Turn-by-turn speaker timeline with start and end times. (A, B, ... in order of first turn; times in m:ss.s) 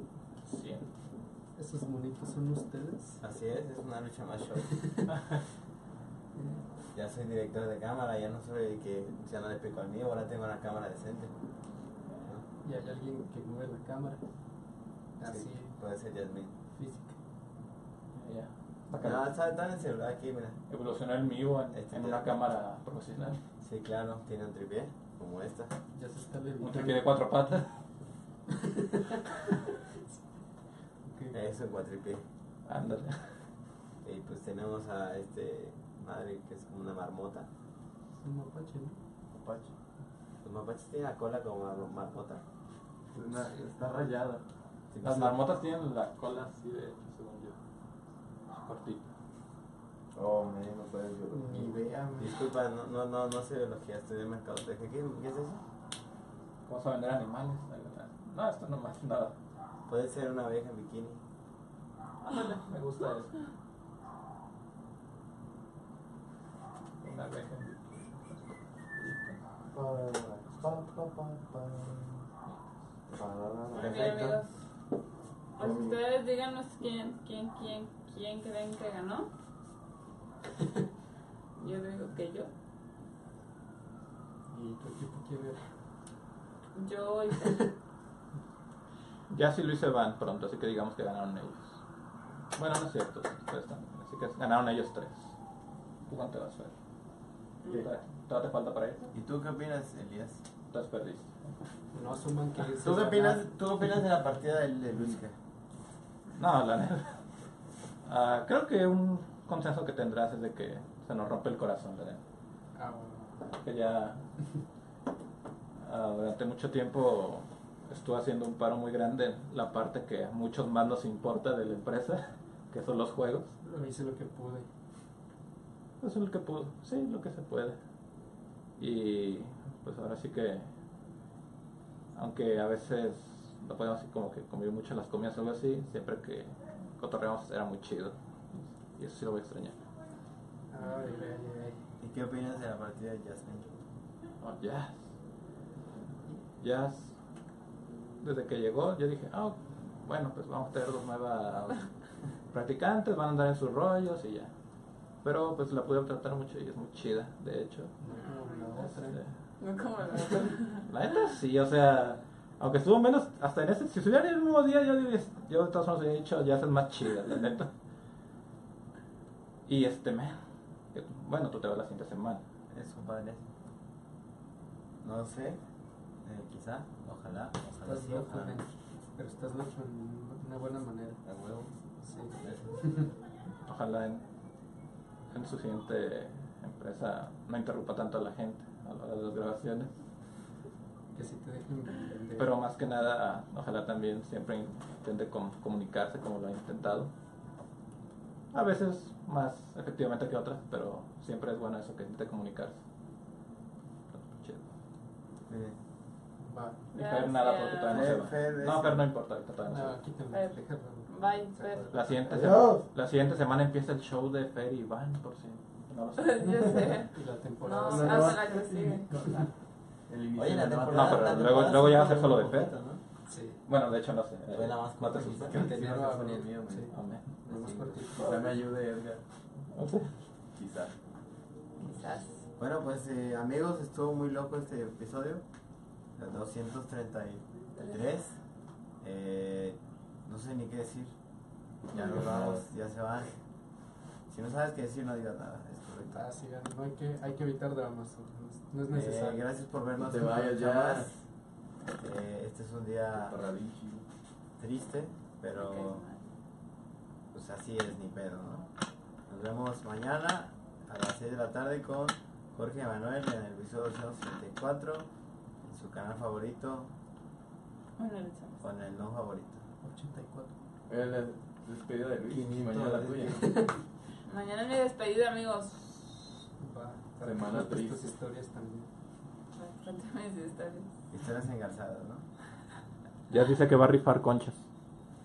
0:00.4-0:00.9 A
0:01.6-0:03.2 B
0:03.2-0:04.7 C
0:04.7-0:05.1 B
0:06.3-0:06.6 B
0:06.9-0:11.3 C
0:12.6-0:14.2 B
0:15.2-0:15.8 B
0:15.2-0:16.5 C
0:16.8-0:17.2 B
0:18.1-0:19.3 A
0:18.9-0:20.6 C
0:20.7-0:23.4 A
0:21.7-0:22.3 C
0:23.6-0:25.7 C
0:25.9-0:27.1 B
0:26.6-0:27.7 A
0:28.5-0:29.2 B
0:31.0-0:31.4 B
0:31.3-0:32.2 C
0:32.6-0:33.4 A
0:34.0-0:37.5 C
0:38.2-0:39.0 B
0:39.4-0:39.7 D
0:40.4-0:42.4 C
0:43.1-0:44.4 D
0:44.9-0:45.4 C
0:45.0-0:47.6 A
0:48.5-0:49.1 A
0:50.1-0:55.6 C
0:51.3-0:52.3 B
0:56.7-0:59.3 A
0:59.9-1:01.2 C
1:02.2-1:03.3 A
1:07.0-1:07.9 A
1:09.1-1:09.4 A
1:09.8-1:12.0 C
1:10.6-1:11.6 D
1:13.1-1:14.3 D
1:13.2-1:14.3 C
1:13.7-1:14.5 E
1:15.6-1:19.3 E
1:15.6-1:15.9 D
1:21.6-1:22.5 E
1:24.5-1:25.7 B
1:26.8-1:27.6 E
1:27.4-1:27.7 B
1:29.3-1:31.8 A
1:32.5-1:35.3 A
1:36.1-1:36.7 A
1:37.7-1:39.1 A
1:39.1-1:40.4 C
1:40.7-1:41.3 A
1:41.9-1:43.4 B
1:42.8-1:45.3 C
1:46.3-1:47.2 A
1:48.0-1:52.2 A
1:52.7-1:53.5 B
1:53.5-1:54.2 A
1:55.8-2:03.5 A
2:03.6-2:04.7 B
2:06.0-2:07.8 A
2:08.8-2:10.7 A
2:12.1-2:19.7 A
2:20.7-2:21.8 B
2:22.0-2:23.7 C
2:24.4-2:25.0 A
2:26.6-2:27.1 A
2:28.2-2:31.9 A
2:32.5-2:34.5 A
2:35.2-2:37.9 A
2:38.0-2:39.2 B
2:38.7-2:39.3 A
2:39.6-2:40.9 E
2:40.9-2:47.7 A
2:49.7-2:50.4 A
2:50.9-2:52.4 A
2:52.7-2:53.4 C
2:55.0-2:55.6 C
2:56.2-2:58.6 C
2:57.8-3:01.2 B
3:01.2-3:01.7 C
3:02.0-3:03.1 B
3:02.4-3:02.8 C
3:03.6-3:04.2 A
3:05.3-3:09.9 A
3:11.1-3:12.6 B
3:12.4-3:17.1 A
3:18.5-3:22.8 A
3:24.1-3:24.6 A
3:25.5-3:25.8 C
3:26.4-3:26.8 B
3:26.9-3:28.1 E
3:26.9-3:30.0 A
3:27.8-3:29.1 C
3:29.7-3:32.0 B
3:30.3-3:31.9 E
3:31.9-3:36.9 A
3:32.3-3:32.8 C
3:32.4-3:32.8 D
3:36.2-3:39.1 E
3:37.1-3:38.5 B
3:37.8-3:39.4 D
3:39.2-3:39.4 B
3:40.1-3:41.4 D
3:40.3-3:43.0 C
3:40.9-3:42.7 A
3:43.3-3:43.6 B
3:43.6-3:45.5 A
3:44.5-3:45.6 C
3:45.2-3:46.9 D
3:45.5-3:48.5 B
3:46.9-3:47.3 A
3:47.5-3:47.9 C
3:48.2-3:49.2 D
3:49.7-3:50.1 A
3:50.6-3:50.9 D
3:51.8-3:52.4 E
3:52.6-3:55.4 C
3:56.2-3:58.4 C
3:59.0-4:01.1 C
4:01.9-4:03.4 C
4:01.9-4:02.2 E
4:02.2-4:02.6 D
4:04.3-4:06.2 C
4:06.1-4:09.4 B
4:08.9-4:11.2 C
4:10.0-4:11.1 D
4:12.0-4:13.3 C
4:13.2-4:14.0 D
4:14.6-4:16.0 C
4:15.5-4:16.2 E
4:17.3-4:18.7 C
4:19.3-4:25.1 C
4:25.6-4:26.9 C
4:28.0-4:28.6 E
4:28.6-4:29.6 C
4:29.8-4:30.5 B
4:30.9-4:33.5 D
4:32.2-4:33.7 C
4:33.4-4:33.7 B
4:34.2-4:36.4 E
4:36.6-4:38.9 B
4:37.2-4:38.1 D
4:39.5-4:40.9 E
4:41.1-4:42.2 C
4:43.3-4:44.6 A